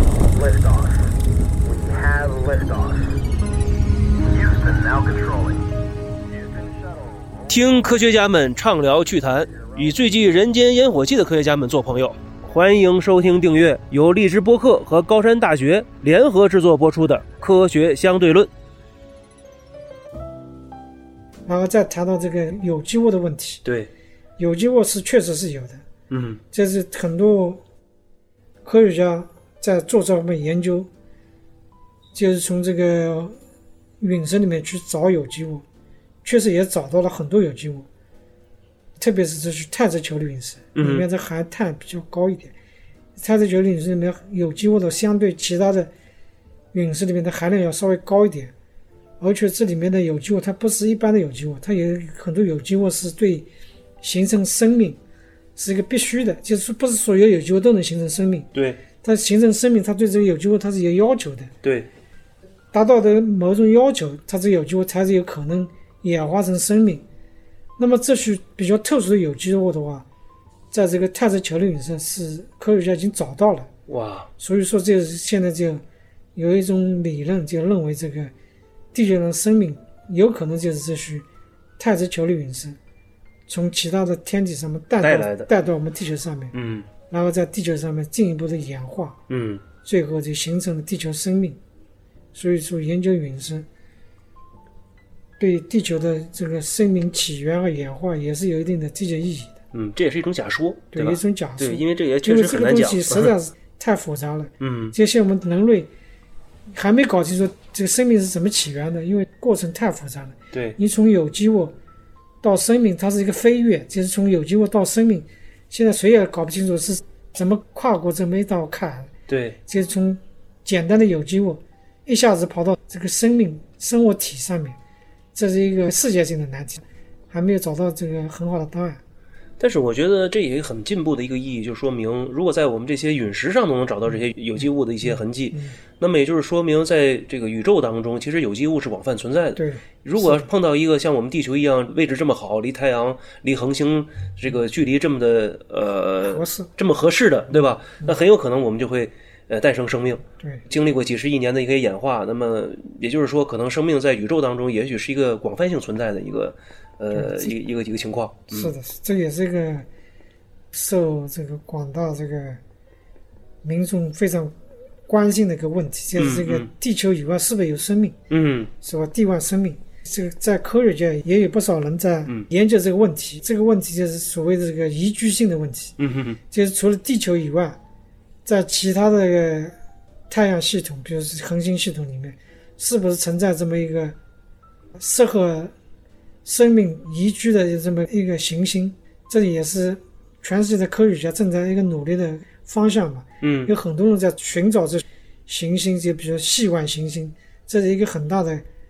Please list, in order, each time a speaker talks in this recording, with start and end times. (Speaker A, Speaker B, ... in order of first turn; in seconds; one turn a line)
Speaker A: 0.3-3.2
Speaker A: 4.2-5.7
Speaker A: 6.3-7.9
Speaker B: 7.5-18.5
Speaker A: 9.5-10.0
Speaker C: 21.5-23.6
Speaker B: 23.6-23.9
Speaker C: 24.4-25.8
Speaker B: 26.1-26.4
Speaker C: 26.5-27.6
Speaker C: 28.6-30.9
Speaker C: 32.1-33.4
Speaker C: 34.0-35.6
Speaker C: 36.2-37.9
Speaker C: 39.0-42.5
Speaker B: 40.8-41.1
Speaker C: 43.2-45.9
Speaker C: 46.7-48.5
Speaker C: 49.2-53.5
Speaker C: 54.0-55.0
Speaker C: 55.6-58.5
Speaker B: 58.5-58.8
Speaker C: 59.0-61.5
Speaker B: 61.6-61.9
Speaker C: 62.7-67.0
Speaker C: 67.8-70.0
Speaker C: 70.7-73.7
Speaker B: 73.9-74.3
Speaker C: 74.4-75.8
Speaker C: 76.3-78.3
Speaker C: 78.9-81.2
Speaker C: 81.8-82.8
Speaker C: 83.5-86.5
Speaker B: 85.0-85.5
Speaker B: 86.5-86.9
Speaker C: 87.1-89.2
Speaker B: 89.3-89.6
Speaker C: 89.8-91.6
Speaker C: 92.3-93.7
Speaker C: 95.4-99.6
Speaker B: 99.7-103.3
Speaker C: 100.9-105.9
Speaker B: 104.6-104.9
Speaker C: 106.7-111.8
Speaker B: 110.5-110.8
Speaker C: 112.4-119.1
Speaker B: 119.3-119.6
Speaker C: 119.7-124.8
Speaker C: 125.3-129.0
Speaker B: 129.6-158.7
Speaker C: 139.6-140.5
Speaker C: 146.2-146.7
Speaker C: 157.2-157.5
Speaker C: 158.5-159.9
Speaker C: 160.7-162.6
Speaker C: 163.6-164.6
Speaker C: 165.1-168.2
Speaker B: 166.2-166.7
Speaker B: 168.3-168.7
Speaker C: 168.8-176.0
Speaker B: 176.0-176.4
Speaker C: 176.5-177.8
Speaker C: 178.4-179.7
Speaker C: 180.3-184.2
Speaker C: 185.0-185.7
Speaker C: 186.4-198.6
Speaker B: 193.4-193.7